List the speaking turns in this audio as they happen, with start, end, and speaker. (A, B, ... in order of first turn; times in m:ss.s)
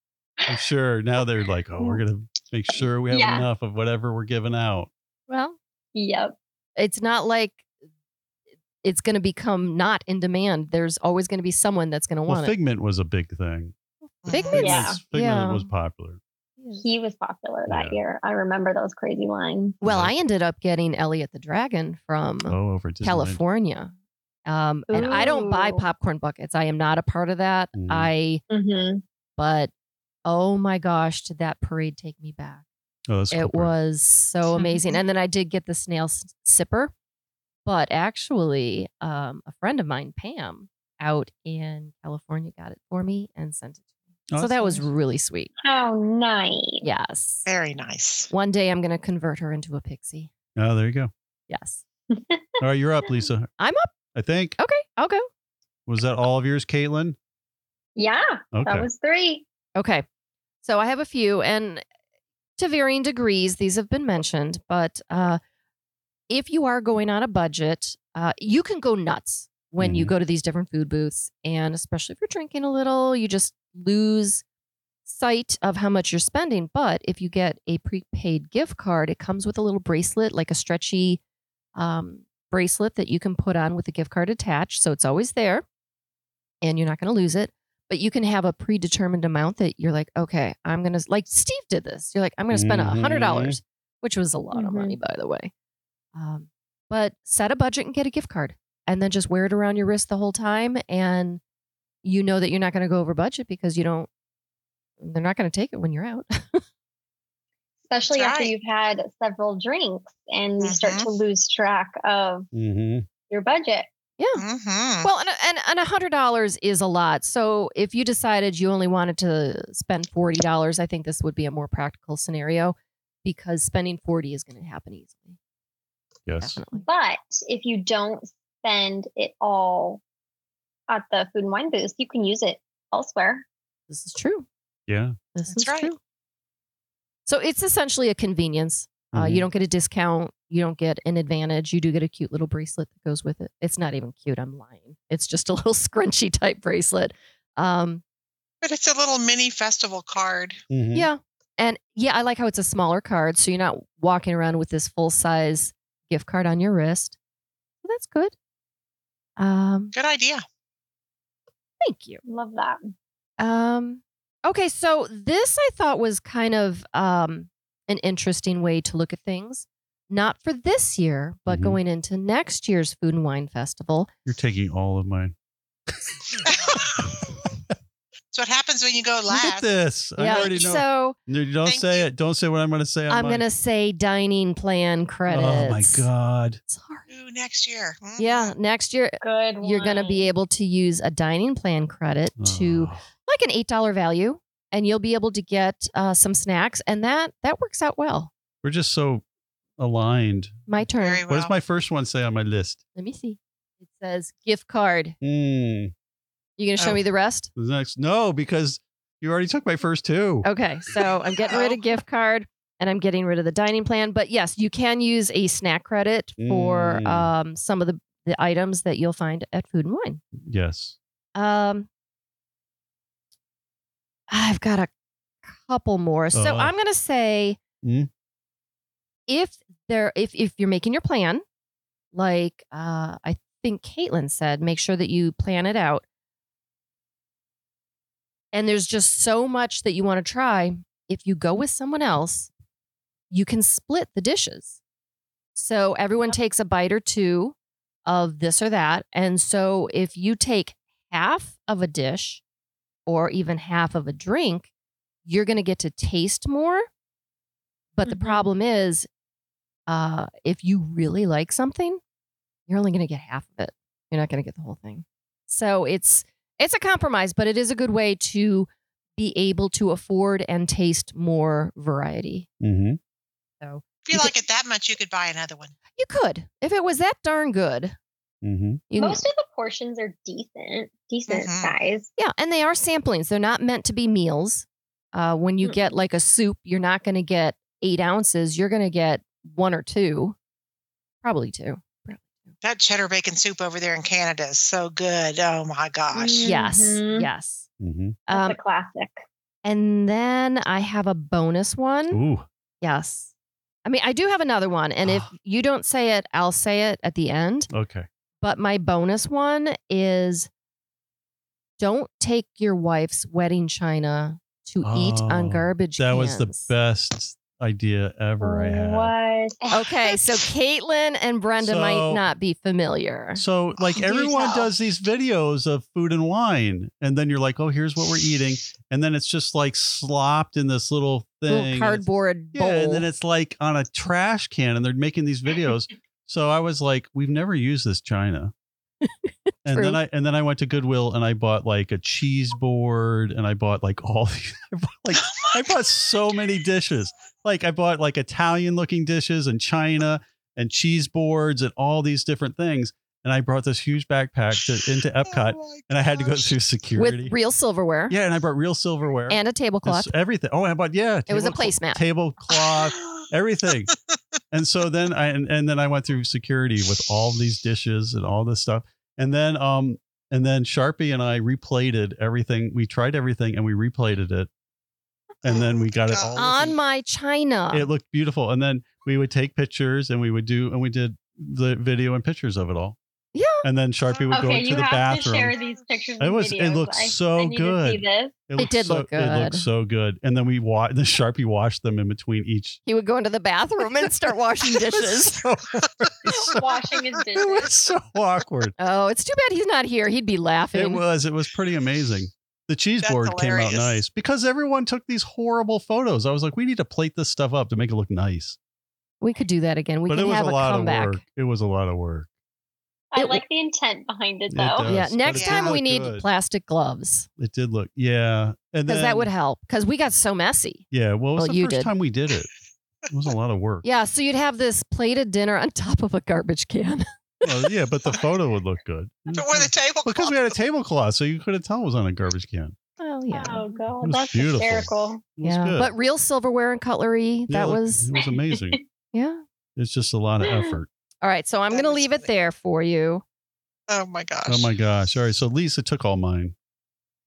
0:00.5-0:04.9 A
0:03.1-0:03.5 B
0:05.3-0:05.6 C
0:06.0-0:06.4 B
0:06.8-0:07.6 C
0:08.8-0:12.5 C
0:12.3-0:13.8 A
0:14.2-0:14.7 D
0:14.3-0:15.7 C
0:14.5-0:15.0 B
0:14.5-0:16.2 A
0:16.8-0:19.8 B
0:17.7-0:18.0 A
0:19.8-0:23.9 C
0:19.8-0:20.1 A
0:22.5-0:23.4 A
0:24.5-0:28.4 C
0:24.9-0:25.8 B
0:27.8-0:28.1 A
0:28.5-0:29.0 B
0:29.4-0:29.7 C
0:30.3-0:32.6 C
0:33.1-0:33.7 A
0:33.3-0:36.9 C
0:34.5-0:35.0 B
0:37.6-0:43.8 C
0:44.3-0:44.9 A
0:44.4-0:45.5 C
0:45.6-0:46.8 B
0:46.8-0:47.5 C
0:47.5-0:48.3 D
0:48.3-0:50.3 C
0:50.6-0:51.1 A
0:51.5-0:51.8 C
0:52.1-0:52.6 B
0:52.6-0:53.5 A
0:53.6-0:53.9 C
0:54.1-0:54.6 A
0:54.6-0:55.3 C
0:55.9-0:57.2 A
0:58.0-0:59.4 B
0:58.5-0:58.9 A
0:59.8-1:00.0 C
1:00.6-1:01.8 C
1:02.6-1:05.4 C
1:06.3-1:14.4 C
1:09.8-1:10.1 A
1:15.1-1:21.2 C
1:21.8-1:25.6 C
1:26.6-1:35.5 C
1:32.5-1:33.6 A
1:34.5-1:35.0 B
1:36.2-1:41.4 C
1:42.0-1:44.1 C
1:45.0-1:46.6 C
1:47.9-1:52.5 B
1:48.1-1:48.5 D
1:50.6-1:51.1 D
1:52.5-1:53.1 A
1:53.3-1:53.9 B
1:54.2-1:54.4 C
1:54.4-1:55.1 D
1:55.0-2:05.4 C
2:06.3-2:06.6 A
2:06.4-2:06.8 C
2:06.7-2:10.0 B
2:10.9-2:13.4 B
2:13.9-2:14.5 C
2:14.9-2:15.2 A
2:15.3-2:16.0 C
2:15.5-2:15.9 D
2:17.3-2:28.0 C
2:19.1-2:19.5 A
2:28.6-2:30.6 D
2:30.7-2:31.1 A
2:30.9-2:37.2 C
2:37.8-2:38.3 C
2:39.4-2:39.9 C
2:39.9-2:40.4 D
2:41.8-2:42.2 C
2:42.2-2:42.9 B
2:43.4-2:54.1 C
2:51.5-2:51.8 A
2:54.3-2:55.3 A
2:55.9-2:57.1 A
2:56.4-2:56.9 D
2:58.3-2:59.7 D
2:59.3-3:03.4 A
3:00.2-3:01.2 C
3:00.3-3:00.8 D
3:01.6-3:02.1 D
3:03.1-3:06.1 C
3:05.3-3:06.6 A
3:06.7-3:07.1 C
3:07.1-3:08.6 D
3:08.2-3:18.3 C
3:09.2-3:10.3 B
3:12.4-3:13.0 A
3:18.6-3:19.2 A
3:19.8-3:20.7 A
3:20.7-3:21.3 C
3:21.0-3:21.5 D
3:21.3-3:22.8 A
3:23.0-3:25.2 C
3:25.2-3:25.9 A
3:26.6-3:27.5 C
3:27.6-3:30.5 A
3:30.4-3:40.2 C
3:31.5-3:31.8 D
3:36.4-3:37.3 A
3:40.4-3:41.0 A
3:41.4-3:41.9 C
3:44.3-3:44.9 C
3:45.4-3:47.6 C
3:46.3-3:46.7 A
3:47.8-3:48.1 A
3:49.3-3:51.4 C
3:52.1-3:56.0 C
3:58.5-4:02.5 C
4:03.3-4:04.8 C
4:05.6-4:07.6 C
4:08.1-4:12.4 C
4:13.1-4:14.7 C
4:15.3-4:16.9 C
4:18.0-4:19.1 C
4:18.0-4:18.5 B
4:19.9-4:22.0 C
4:22.7-4:32.5 C
4:32.6-4:33.0 A
4:33.6-4:34.3 C
4:34.0-4:35.7 D
4:36.0-4:38.0 C
4:38.4-4:38.8 A
4:38.9-4:39.2 C
4:39.0-4:42.1 B
4:41.3-4:41.7 D
4:42.2-4:50.4 C
4:51.2-4:52.5 C
4:52.6-4:56.5 D
4:56.1-4:57.3 B
4:56.4-4:57.7 C
4:57.8-4:58.2 A
4:58.3-4:58.6 C
4:58.3-4:59.2 B
4:59.6-5:02.2 C
5:02.1-5:02.5 A
5:02.8-5:03.3 C
5:03.8-5:07.7 C
5:05.0-5:05.3 A
5:07.7-5:08.1 A
5:08.4-5:10.5 C
5:11.8-5:16.7 C
5:14.8-5:19.1 A
5:18.4-5:19.7 B
5:19.7-5:20.2 D
5:19.7-5:23.4 C
5:21.6-5:22.2 A
5:23.4-5:38.5 A
5:23.8-5:24.7 B
5:31.5-5:33.1 C
5:39.0-5:40.0 C
5:39.6-5:57.3 A
5:45.1-5:45.6 D
5:55.3-5:56.5 D
5:57.0-5:58.2 C
5:58.1-6:03.9 A
5:59.3-6:00.1 C
6:01.3-6:02.0 C
6:04.5-6:14.5 A
6:15.4-6:16.8 A
6:16.1-6:16.4 D
6:16.4-6:17.9 C
6:17.7-6:23.0 A
6:23.4-6:23.6 C
6:23.6-6:25.6 A
6:24.3-6:28.4 B
6:26.2-6:32.8 A
6:28.6-6:29.7 C
6:32.9-6:35.5 C
6:34.6-6:36.6 A
6:36.2-6:37.7 B
6:37.3-6:38.8 A
6:38.8-6:41.0 C
6:40.7-6:48.6 A
6:43.0-6:44.0 D
6:49.2-6:51.2 C
6:50.1-6:52.3 A
6:53.1-6:54.9 B
6:53.2-6:53.4 C
6:54.5-6:56.3 A
6:54.8-6:57.3 C
6:55.3-6:55.8 D
6:57.4-6:59.3 A
6:58.9-7:00.8 C
7:00.9-7:02.5 A
7:01.4-7:01.9 C
7:03.1-7:03.8 A
7:03.8-7:07.5 C
7:07.4-7:12.8 A
7:09.3-7:10.5 D
7:13.0-7:13.7 C
7:13.3-7:15.2 B
7:14.0-7:15.9 A
7:15.4-7:18.1 C
7:17.5-7:18.8 A
7:19.1-7:19.4 C
7:19.8-7:20.9 A
7:20.4-7:20.8 B
7:21.2-7:23.2 C
7:21.7-7:22.1 D
7:23.9-7:24.7 D
7:24.5-7:26.6 A